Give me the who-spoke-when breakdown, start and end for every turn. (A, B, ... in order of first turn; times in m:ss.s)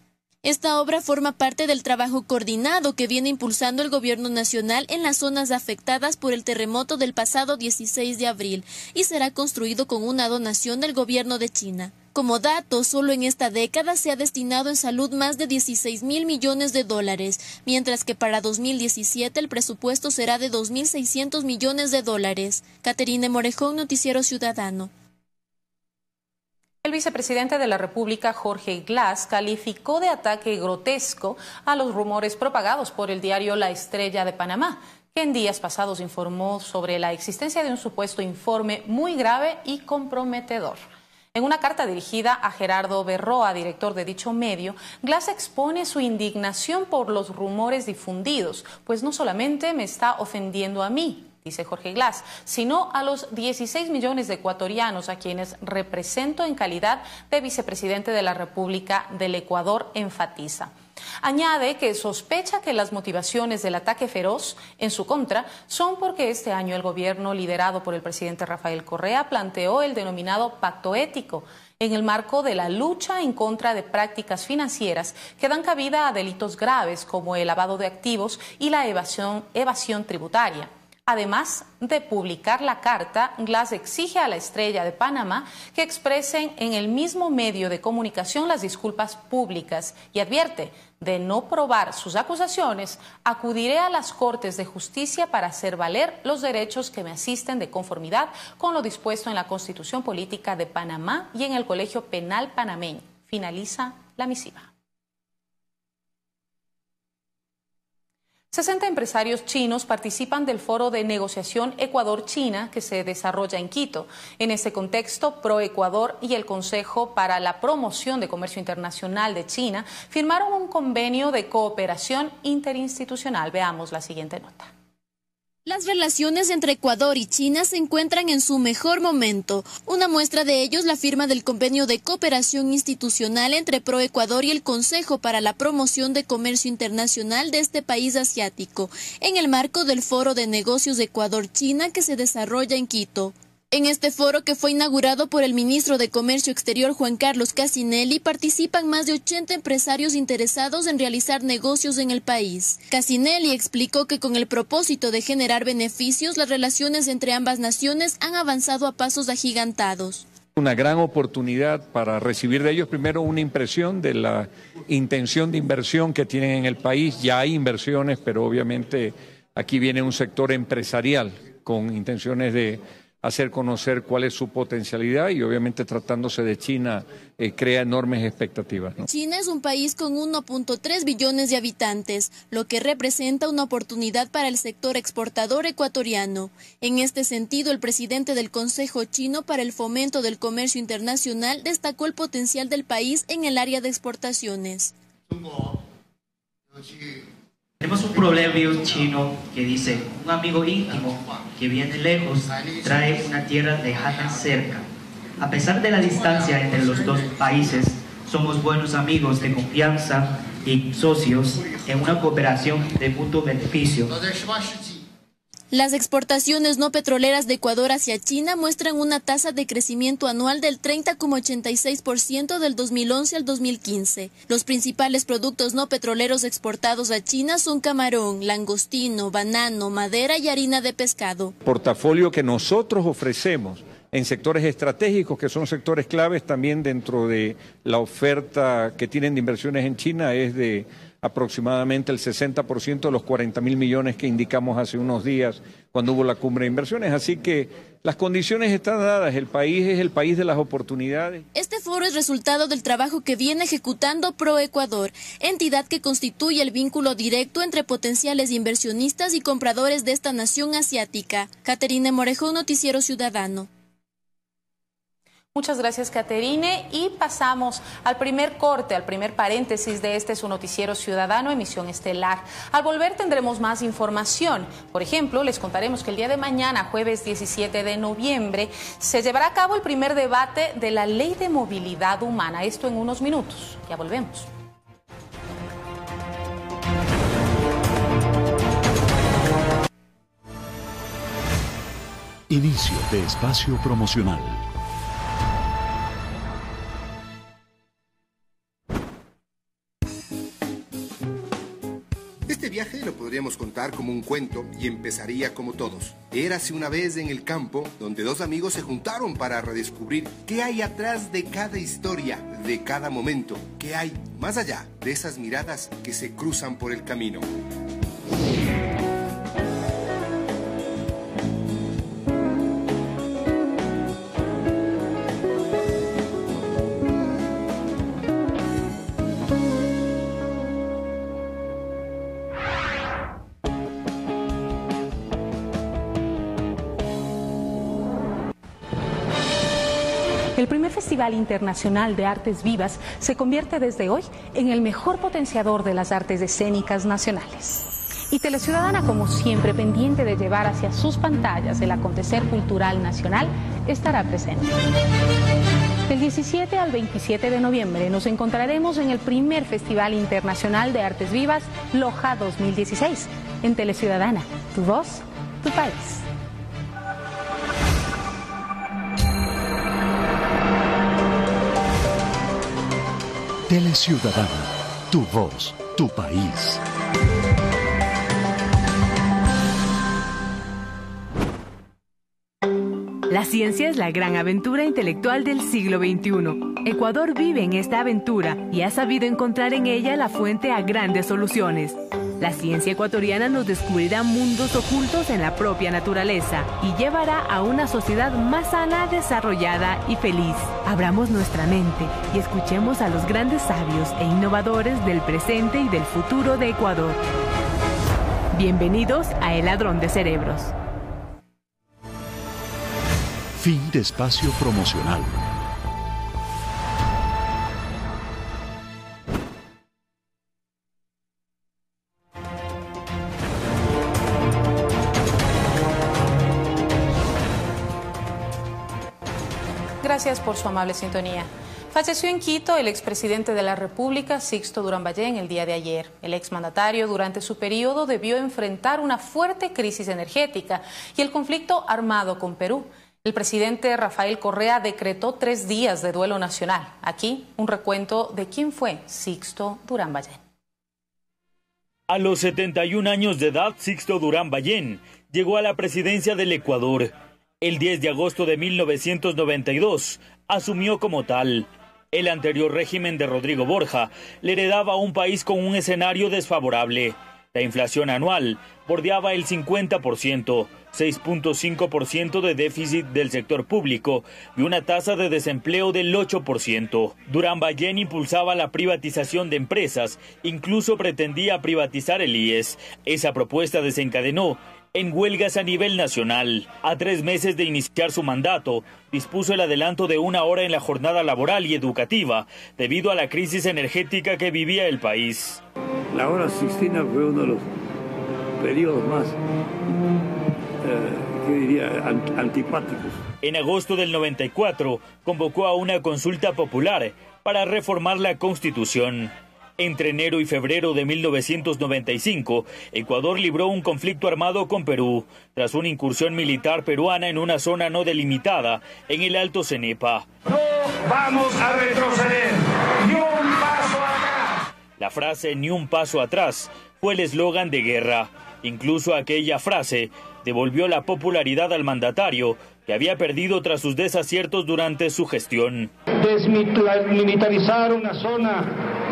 0:00.4-0:24.9 A
0:26.8-0:40.8 B
0:41.3-1:44.7 B
1:48.5-2:04.7 B
2:05.6-2:40.3 A
2:40.6-2:59.1 C
2:59.1-3:14.9 A
3:17.8-3:24.8 D
3:25.4-3:34.2 D
3:35.7-3:51.5 A
3:51.6-4:11.4 C
4:11.5-4:23.7 A
4:25.5-4:44.5 B
4:52.5-4:54.6 E
5:02.5-5:17.5 F
5:40.6-5:54.8 B
5:56.1-6:06.2 B
6:13.7-6:16.8 E
6:23.3-6:47.2 G
6:48.5-6:50.7 G
6:53.5-6:55.6 E
7:10.0-7:30.4 B
7:32.1-8:15.6 H
8:16.1-8:17.7 I
8:18.6-8:19.4 I
8:20.8-8:23.2 I
8:23.4-8:40.3 H
8:40.4-8:44.6 J
8:45.0-8:55.9 H
8:56.2-8:58.7 J